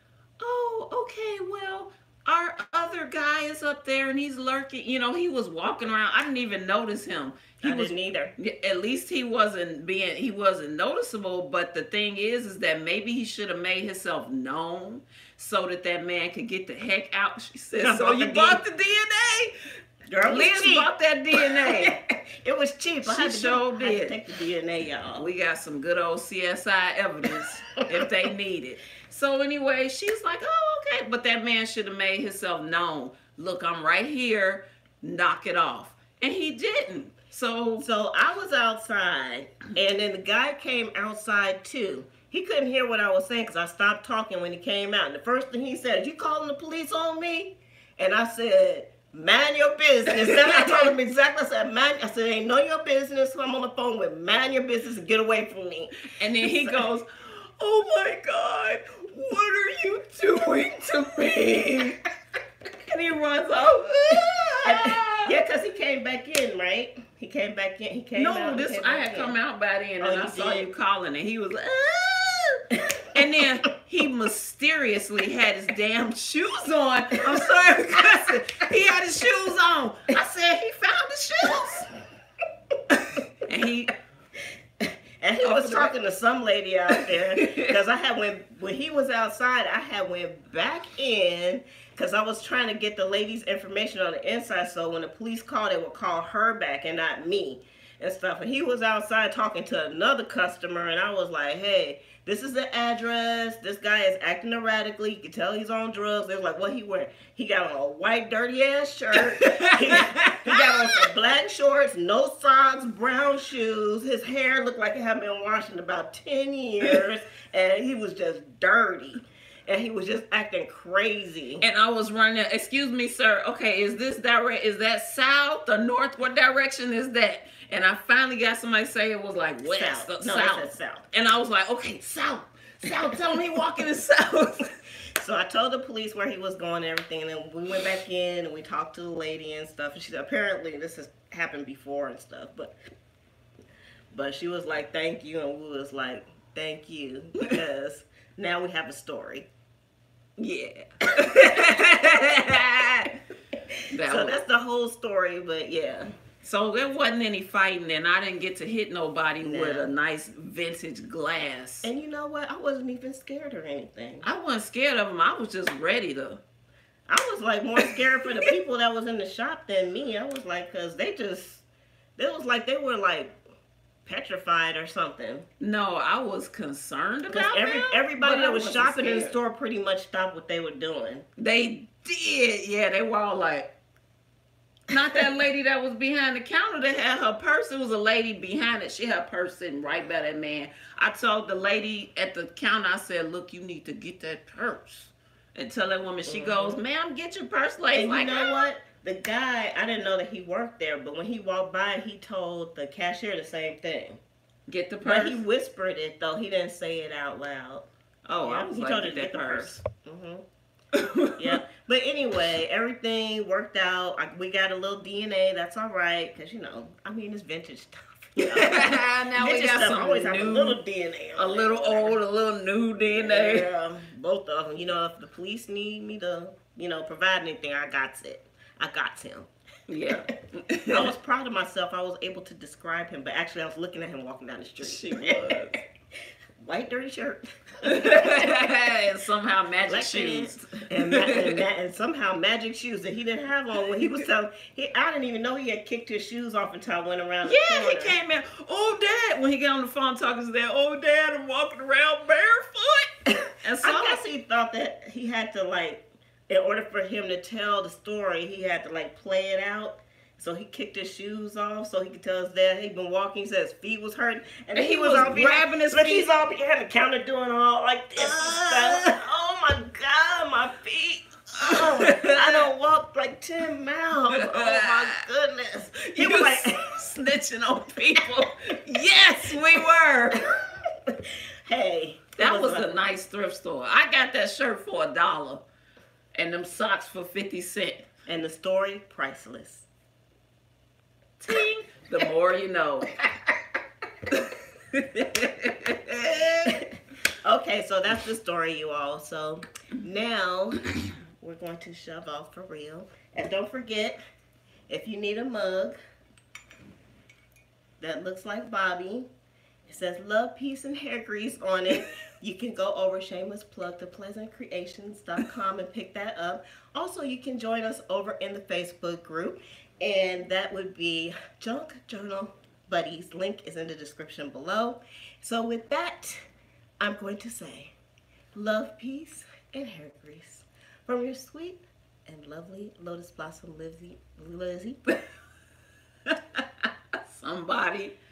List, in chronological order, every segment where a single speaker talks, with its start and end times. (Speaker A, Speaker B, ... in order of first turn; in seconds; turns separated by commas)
Speaker A: 0.4-19.5, Speaker B: 7.6-8.3, Speaker B: 17.8-18.6, Speaker B: 20.1-25.3, Speaker A: 20.2-21.9, Speaker A: 23.1-24.1, Speaker A: 25.1-37.8, Speaker B: 37.8-56.8, Speaker A: 50.0-50.9, Speaker A: 56.0-62.0, Speaker A: 62.8-65.3, Speaker B: 64.6-69.4, Speaker A: 68.1-81.9, Speaker B: 70.0-70.7, Speaker A: 83.4-83.9, Speaker B: 84.8-121.7, Speaker A: 85.4-85.9, Speaker A: 86.9-87.7, Speaker A: 109.4-111.1, Speaker A: 121.6-134.7, Speaker B: 129.6-131.1, Speaker B: 135.2-142.7, Speaker B: 144.1-149.5, Speaker A: 150.4-153.2, Speaker A: 153.9-154.3, Speaker B: 154.0-156.1, Speaker A: 156.4-161.9, Speaker B: 159.4-159.9, Speaker B: 161.8-164.3, Speaker A: 164.2-166.4, Speaker B: 167.1-171.6, Speaker A: 167.9-168.5, Speaker B: 172.2-173.4, Speaker B: 174.1-175.5, Speaker A: 175.6-179.3, Speaker B: 177.3-181.2, Speaker A: 181.4-183.7, Speaker A: 184.9-198.5, Speaker B: 196.2-196.8, Speaker B: 197.9-204.2, Speaker A: 204.7-205.4, Speaker B: 205.0-207.9, Speaker A: 208.2-209.8, Speaker B: 208.4-210.4, Speaker A: 210.9-211.6, Speaker B: 211.4-222.2, Speaker A: 218.4-220.8, Speaker A: 221.4-223.7, Speaker B: 223.1-229.5, Speaker A: 229.9-231.1, Speaker B: 230.9-235.8, Speaker A: 234.8-235.8, Speaker B: 236.6-238.7, Speaker A: 237.8-241.6, Speaker B: 239.9-248.2, Speaker A: 247.4-253.1, Speaker A: 253.6-254.2, Speaker B: 253.8-276.9, Speaker A: 264.7-266.3, Speaker A: 268.2-269.1, Speaker A: 271.7-272.7, Speaker A: 274.3-275.2, Speaker A: 276.1-280.4, Speaker B: 280.3-282.9, Speaker A: 282.4-285.6, Speaker A: 286.3-288.1, Speaker B: 288.3-289.9, Speaker A: 291.4-293.1, Speaker A: 294.3-296.8, Speaker B: 297.4-300.9, Speaker B: 301.4-304.2, Speaker B: 304.9-306.0, Speaker B: 308.0-309.3, Speaker B: 309.9-326.4, Speaker B: 327.0-327.9, Speaker B: 328.5-335.0, Speaker A: 336.2-338.1